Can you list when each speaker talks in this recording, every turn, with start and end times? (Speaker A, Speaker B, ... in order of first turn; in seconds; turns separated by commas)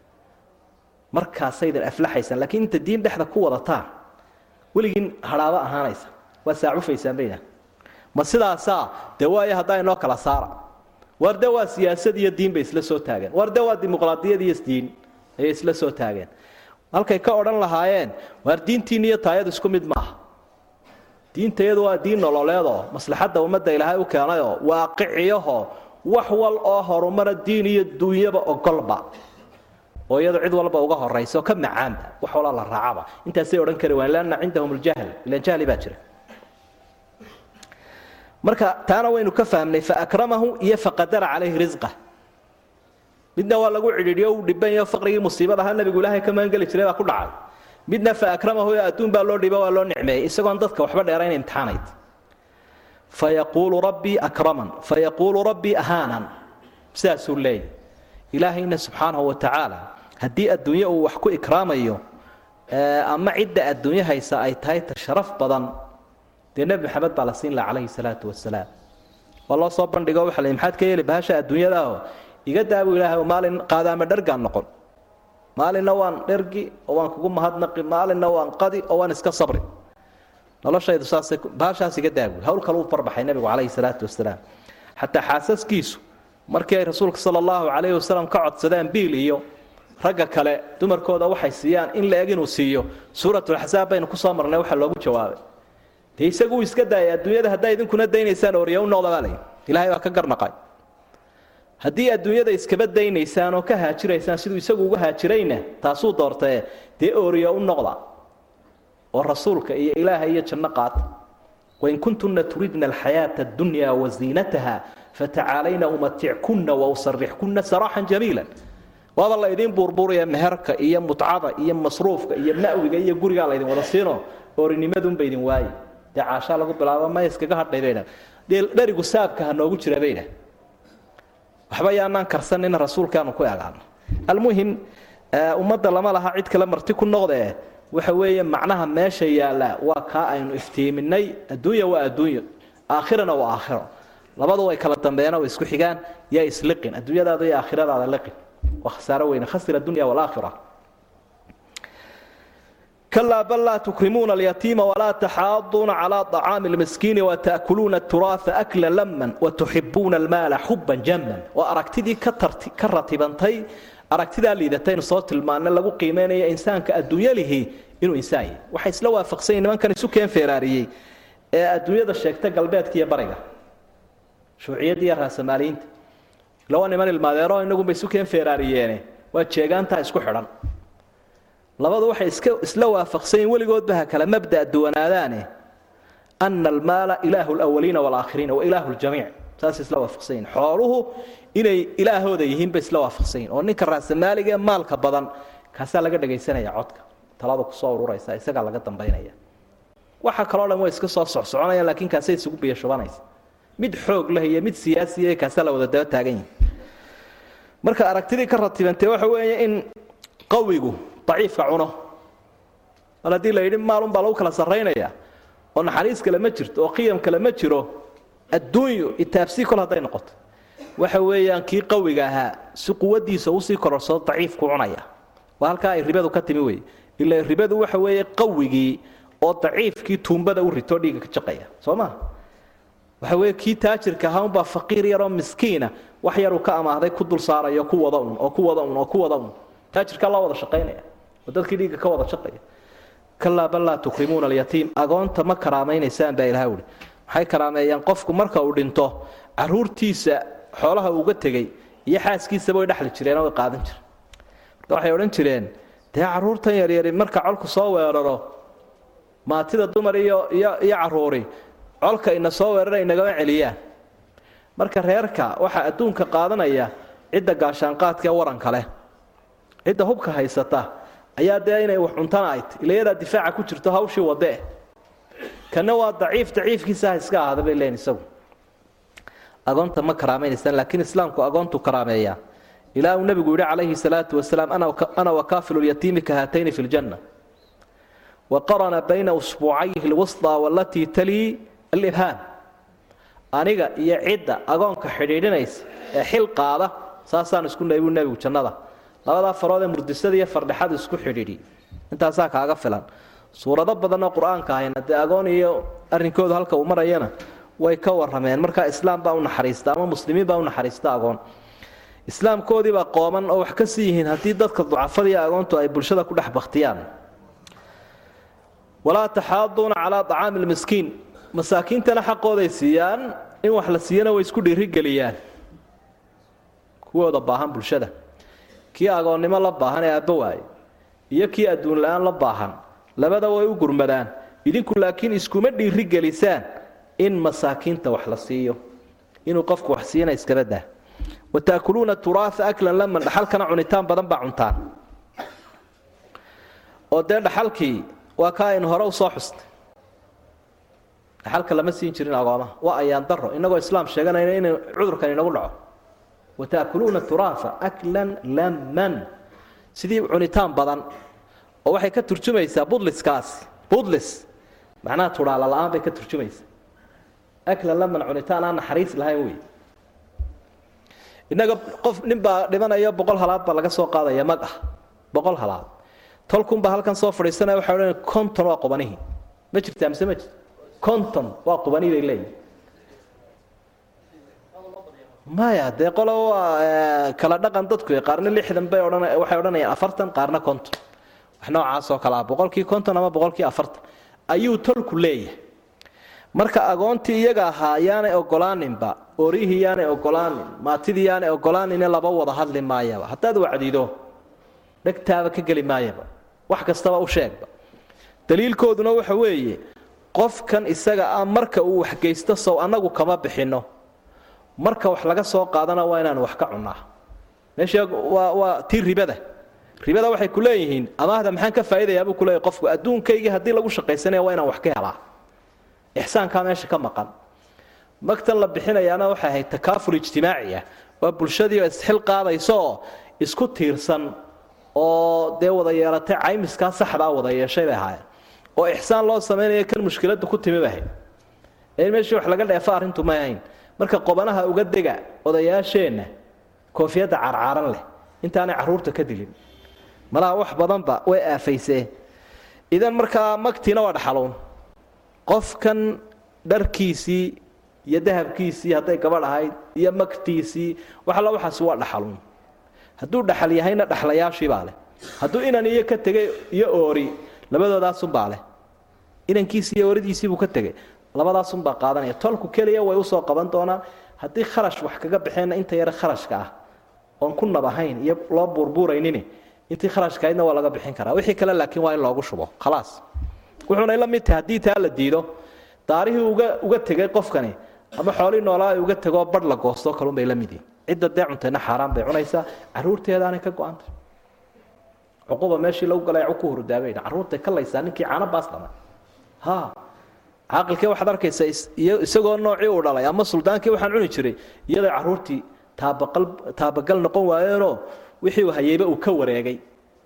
Speaker A: 1.1-3.8, Speaker A: 4.7-7.4, Speaker A: 8.1-10.6, Speaker A: 11.2-16.3, Speaker A: 16.9-20.1, Speaker A: 21.3-29.1, Speaker A: 30.1-36.0, Speaker A: 38.4-41.9, Speaker A: 43.4-47.3, Speaker A: 47.9-51.9, Speaker A: 53.1-56.3, Speaker A: 56.9-57.6, Speaker A: 58.3-62.0, Speaker A: 62.7-65.7, Speaker A: 66.5-68.7, Speaker A: 69.5-74.7, Speaker A: 75.5-79.6, Speaker A: 80.6-84.4, Speaker A: 85.0-89.4, Speaker A: 90.0-95.4, Speaker A: 96.2-100.5, Speaker A: 101.8-108.0, Speaker A: 109.1-111.0, Speaker A: 111.8-118.5, Speaker A: 119.2-130.3, Speaker A: 131.7-134.8, Speaker A: 135.3-143.9, Speaker A: 144.4-150.6, Speaker A: 153.1-170.9, Speaker A: 171.5-173.4, Speaker A: 174.6-175.8, Speaker A: 176.7-180.5, Speaker A: 181.8-185.4, Speaker A: 186.4-199.3, Speaker A: 200.2-203.2, Speaker A: 203.8-206.4, Speaker A: 207.8-209.9, Speaker A: 210.5-211.9, Speaker A: 213.2-215.1, Speaker A: 215.8-218.0, Speaker A: 218.5-220.3, Speaker A: 221.0-225.1, Speaker A: 225.6-232.1, Speaker A: 233.2-242.6, Speaker A: 243.4-254.0, Speaker A: 254.9-258.5, Speaker A: 259.4-261.5, Speaker A: 262.0-263.7, Speaker A: 264.8-268.9, Speaker A: 269.9-270.9, Speaker A: 271.4-274.6, Speaker A: 275.7-278.2, Speaker A: 279.7-282.4, Speaker A: 282.9-287.2, Speaker A: 288.5-292.4, Speaker A: 293.5-298.7, Speaker A: 299.2-301.6, Speaker A: 302.1-311.4, Speaker A: 312.3-317.0, Speaker A: 319.1-325.3, Speaker A: 327.1-328.1, Speaker A: 328.9-330.6, Speaker A: 331.3-336.6, Speaker A: 337.2-338.8, Speaker A: 339.4-340.8, Speaker A: 341.5-344.8, Speaker A: 347.1-349.6, Speaker A: 351.4-355.7, Speaker A: 356.6-359.2, Speaker A: 359.9-361.0, Speaker A: 361.9-364.4, Speaker A: 365.0-366.6, Speaker A: 367.7-369.6, Speaker A: 371.5-374.8, Speaker A: 375.3-375.9, Speaker A: 376.5-379.2, Speaker A: 379.7-380.5, Speaker A: 381.0-382.5, Speaker A: 385.5-390.9, Speaker A: 391.6-395.6, Speaker A: 396.6-404.1, Speaker A: 405.0-407.7, Speaker A: 408.5-409.8, Speaker A: 410.3-413.8, Speaker A: 414.8-417.0, Speaker A: 417.8-419.4, Speaker A: 420.0-425.1, Speaker A: 426.1-427.3, Speaker A: 428.2-434.3, Speaker A: 434.9-438.2, Speaker A: 438.8-441.1, Speaker A: 442.0-446.3, Speaker A: 446.9-449.5, Speaker A: 450.3-452.1, Speaker A: 452.9-454.6, Speaker A: 455.5-462.4, Speaker A: 463.2-468.6, Speaker A: 469.5-476.7, Speaker A: 477.4-483.2, Speaker A: 483.9-485.5, Speaker A: 486.1-494.1, Speaker A: 495.5-498.9, Speaker A: 499.6-499.9, Speaker A: 500.7-509.8